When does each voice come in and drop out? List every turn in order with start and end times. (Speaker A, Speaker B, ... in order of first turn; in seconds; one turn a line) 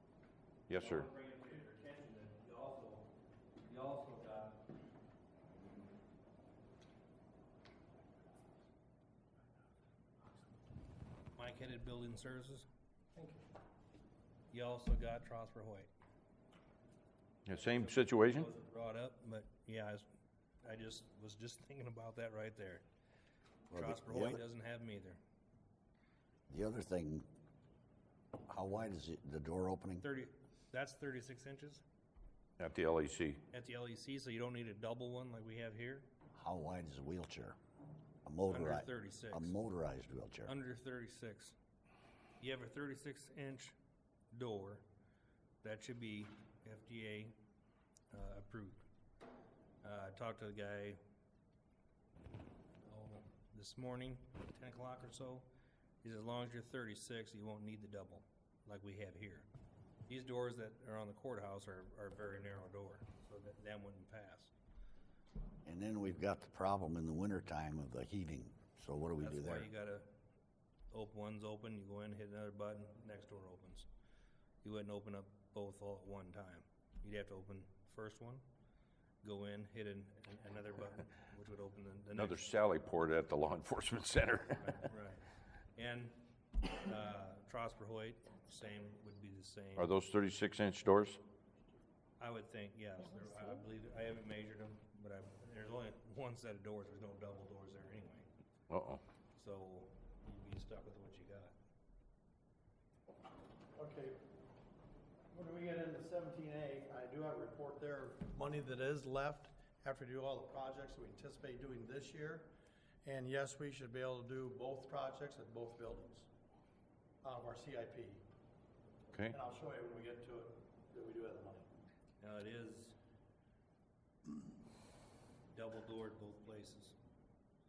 Speaker A: 0.7-1.1
Speaker B: 0.8-3.1
Speaker B: 3.6-4.7
Speaker B: 11.3-12.7
Speaker B: 14.5-15.9
Speaker A: 17.4-18.5
Speaker B: 17.5-20.1
Speaker B: 20.6-22.8
Speaker C: 23.7-24.4
Speaker B: 23.7-25.2
Speaker C: 26.5-27.2
Speaker C: 28.4-30.0
Speaker B: 30.0-31.8
Speaker A: 32.6-33.4
Speaker B: 33.5-36.1
Speaker C: 36.3-37.5
Speaker C: 38.2-40.5
Speaker B: 38.5-39.5
Speaker B: 40.5-41.5
Speaker B: 42.4-43.7
Speaker B: 44.3-44.8
Speaker B: 45.6-47.3
Speaker B: 48.1-48.8
Speaker B: 49.8-51.0
Speaker B: 52.8-55.5
Speaker B: 56.0-59.5
Speaker B: 60.1-64.5
Speaker C: 65.6-69.7
Speaker B: 69.2-70.1
Speaker B: 70.9-73.9
Speaker B: 74.6-78.4
Speaker B: 79.2-82.4
Speaker A: 82.2-84.8
Speaker B: 84.6-86.2
Speaker B: 86.7-89.9
Speaker A: 89.8-91.2
Speaker B: 92.2-98.3
Speaker A: 98.7-99.0
Speaker B: 99.3-101.5
Speaker D: 103.7-104.2
Speaker D: 105.3-112.5
Speaker D: 113.0-116.3
Speaker D: 117.2-118.2
Speaker D: 119.3-121.7
Speaker B: 122.2-123.0
Speaker B: 125.5-126.9